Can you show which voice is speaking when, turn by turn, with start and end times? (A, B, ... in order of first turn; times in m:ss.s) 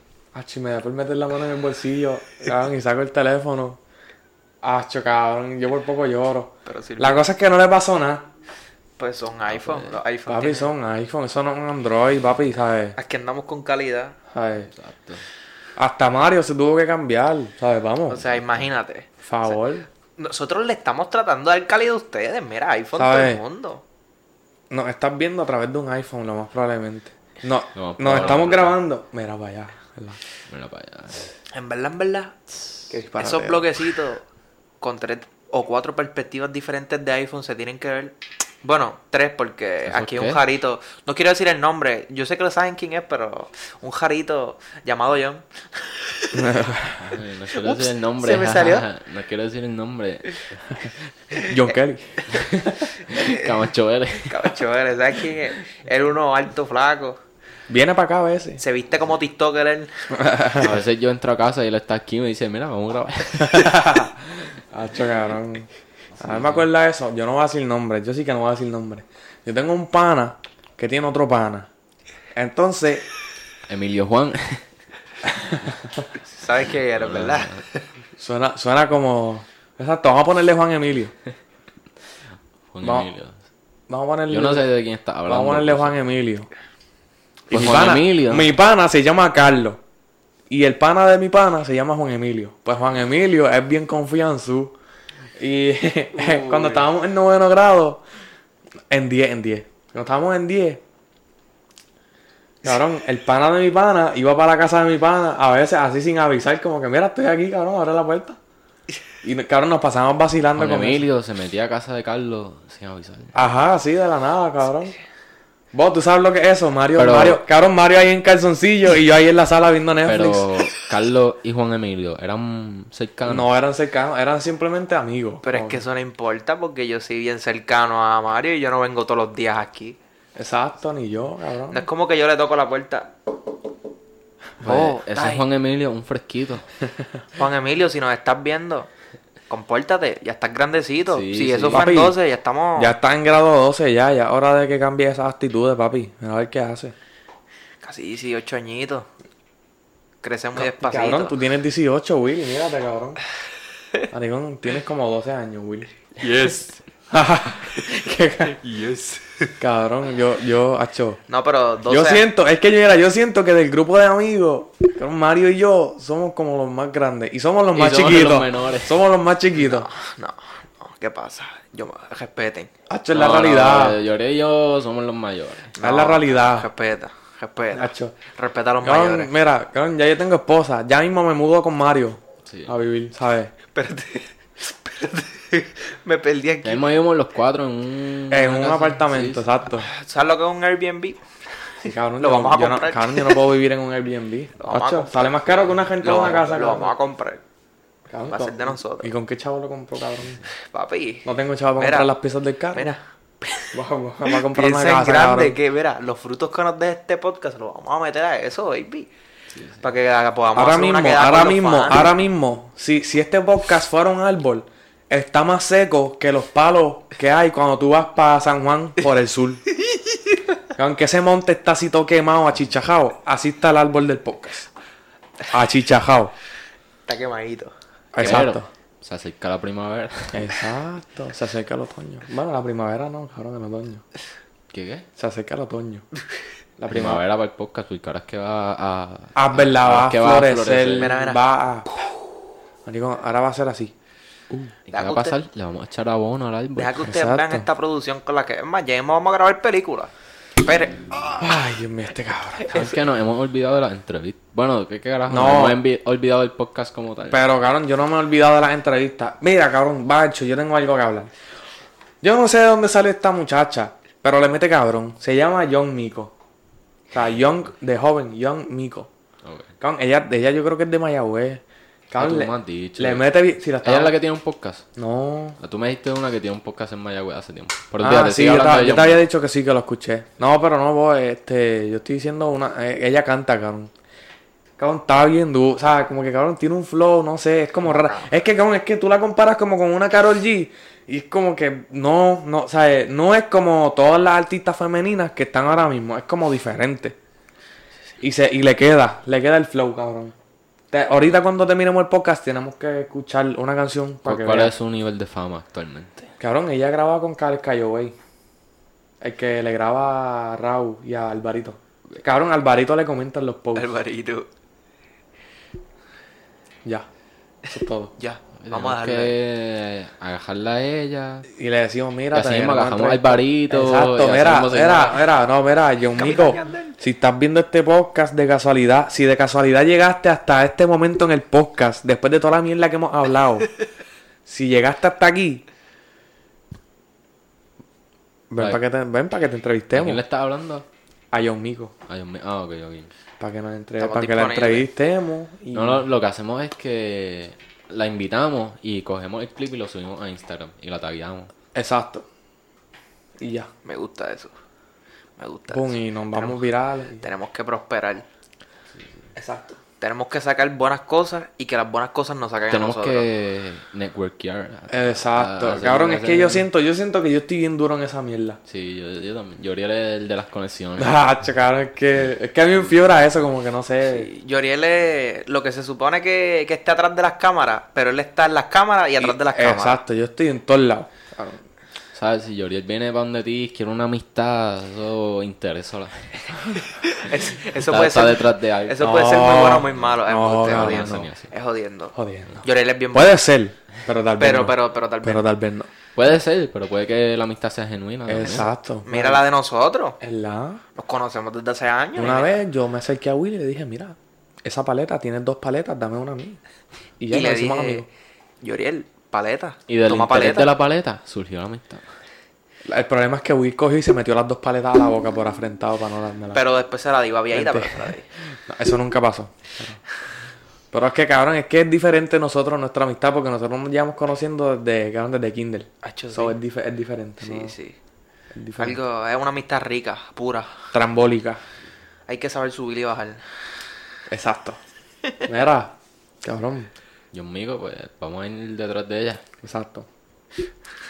0:00.3-0:03.8 A
0:04.6-0:08.3 A
0:06.6-0:07.2 B
0:09.0-0:10.7 B
0:09.5-0:10.0 C
0:10.3-0:13.0 A
0:13.0-0:14.2 B
0:14.3-0:14.7 A
0:14.7-0:15.2 C
0:15.8-0:18.2 A
0:18.1-0:19.6 B
0:19.2-0:19.9 A
0:20.2-0:23.8 B
0:23.0-0:23.4 A
0:24.7-0:30.2 A
0:27.8-0:28.8 C
0:30.5-0:31.3 C
0:31.5-0:32.4 B
0:32.9-0:33.8 A
0:33.2-0:34.2 B
0:34.8-0:46.6 B
0:39.8-0:40.4 C
0:46.4-0:47.2 A
0:47.0-0:50.4 C
0:47.6-0:48.9 B
0:51.4-0:52.5 A
0:52.3-0:54.6 C
0:53.1-0:53.5 B
0:54.3-0:57.2 B
0:57.7-0:58.6 A
0:58.6-0:59.9 B
1:00.1-1:00.8 A
1:00.6-1:03.8 C
1:03.5-1:04.2 A
1:04.7-1:05.7 A
1:06.2-1:06.7 C
1:06.2-1:11.7 A
1:12.3-1:13.1 A
1:13.7-1:14.6 C
1:15.3-1:15.6 A
1:16.3-1:17.8 B
1:16.9-1:17.6 C
1:18.2-1:21.1 A
1:22.7-1:23.4 C
1:22.8-1:23.1 A
1:23.9-1:24.6 A
1:24.3-1:26.0 C
1:25.3-1:26.5 A
1:27.5-1:28.5 C
1:27.5-1:29.8 A
1:30.5-1:34.8 A
1:35.4-1:38.0 A
1:36.2-1:36.8 B
1:38.9-1:40.8 A
1:42.6-1:48.4 A
1:49.2-1:51.0 A
1:50.6-1:53.4 C
1:53.4-1:55.0 A
1:55.7-2:00.5 A
1:57.0-1:57.4 C
2:00.1-2:03.5 C
2:03.3-2:05.8 A
2:05.4-2:10.0 B
2:10.4-2:11.8 A
2:11.7-2:13.1 B
2:14.6-2:15.4 B
2:14.6-2:16.7 C
2:17.4-2:18.9 B
2:19.5-2:22.9 B
2:21.1-2:21.9 C
2:21.7-2:22.2 A
2:22.8-2:26.9 A
2:27.8-2:29.1 B
2:30.2-2:31.4 B
2:30.6-2:33.2 A
2:34.1-2:35.9 A
2:36.3-2:36.6 B
2:37.1-2:38.6 A
2:39.6-2:41.2 A
2:41.3-2:42.3 B
2:41.9-2:49.9 A
2:47.7-2:49.0 C
2:49.6-2:52.7 B
2:52.9-2:54.0 A
2:53.1-2:55.7 C
2:55.8-2:59.3 B
2:55.8-2:56.7 A
2:57.7-2:58.2 A
2:58.8-3:03.5 A
3:02.4-3:02.7 C
3:03.7-3:06.8 B
3:06.6-3:09.4 C
3:08.3-3:09.9 A
3:09.8-3:11.2 B
3:11.8-3:13.4 B
3:11.8-3:16.9 A
3:14.6-3:17.4 B
3:18.1-3:20.4 A
3:18.3-3:19.1 B
3:20.7-3:21.3 B
3:21.2-3:22.9 A
3:21.8-3:22.1 B
3:22.7-3:23.8 B
3:23.7-3:25.6 A
3:24.3-3:29.1 B
3:29.5-3:29.8 C
3:29.8-3:32.1 B
3:30.6-3:39.6 A
3:39.9-3:40.4 B
3:40.8-3:44.7 A
3:45.5-3:46.3 A
3:47.1-3:47.7 B
3:48.1-3:48.7 A
3:48.2-3:50.5 C
3:50.3-3:54.0 A
3:54.7-3:55.0 C
3:55.2-3:56.0 A
3:56.8-3:57.2 A
3:56.9-4:01.2 C
3:59.4-4:01.9 A
4:01.0-4:01.4 B
4:02.8-4:03.9 A
4:04.9-4:07.0 C
4:04.9-4:05.4 B
4:06.8-4:11.1 B
4:07.0-4:07.7 A
4:11.4-4:12.9 A
4:12.7-4:17.4 C
4:15.3-4:15.8 A
4:17.3-4:21.3 A
4:22.2-4:26.3 A
4:27.1-4:29.1 A
4:29.4-4:29.7 C
4:29.8-4:34.2 A
4:32.2-4:33.3 C
4:33.8-4:34.9 C
4:35.0-4:35.6 A
4:35.6-4:39.2 C
4:38.0-4:43.9 A
4:44.8-4:57.2 A
4:47.9-4:48.3 B
4:58.2-5:00.4 A
5:00.9-5:04.7 A
5:04.2-5:06.3 C
5:06.4-5:08.2 A
5:09.2-5:13.9 A
5:13.8-5:14.5 B
5:17.7-5:18.1 A
5:18.2-5:19.4 B
5:18.6-5:21.5 C
5:21.5-5:33.7 A
5:22.3-5:25.3 C
5:26.2-5:27.0 B
5:34.5-5:35.6 A
5:38.5-5:40.2 A
5:39.9-5:40.9 C
5:41.3-5:41.9 A
5:42.1-5:43.1 C
5:43.4-5:46.0 A
5:44.0-5:44.9 B
5:45.7-5:51.5 C
5:51.7-5:52.3 A
5:53.4-5:53.7 A
5:53.8-5:54.5 B
5:55.4-5:56.6 B
5:55.7-5:57.3 A
5:57.2-5:58.2 B
5:59.4-5:59.8 A
6:00.0-6:03.3 B
6:02.7-6:06.7 C
6:04.9-6:08.6 A
6:08.7-6:11.2 C
6:11.0-6:14.3 A
6:14.0-6:20.0 B
6:19.2-6:21.6 A
6:22.1-6:26.6 C
6:26.8-6:33.4 B
6:27.8-6:29.0 C
6:29.0-6:31.3 A
6:30.6-6:31.5 C
6:32.2-6:35.9 A
6:34.4-6:35.4 B
6:36.2-6:38.7 C
6:38.3-6:39.4 A
6:39.1-6:40.2 B
6:40.2-6:40.8 A
6:41.0-6:42.6 B
6:42.2-6:46.6 A
6:47.2-6:48.1 A
6:47.3-6:48.1 B
6:48.6-6:50.7 B
6:49.9-6:52.0 C
6:52.9-6:56.6 A
6:56.5-6:58.3 B
6:57.5-6:58.2 A
6:58.7-7:00.0 A
7:00.9-7:07.7 A
7:06.0-7:06.6 B
7:07.4-7:08.0 B
7:08.6-7:09.0 A
7:08.8-7:10.8 B
7:10.9-7:11.6 A
7:12.3-7:13.4 B
7:14.3-7:14.8 A
7:15.4-7:16.9 A
7:17.3-7:19.4 C
7:19.6-7:20.1 A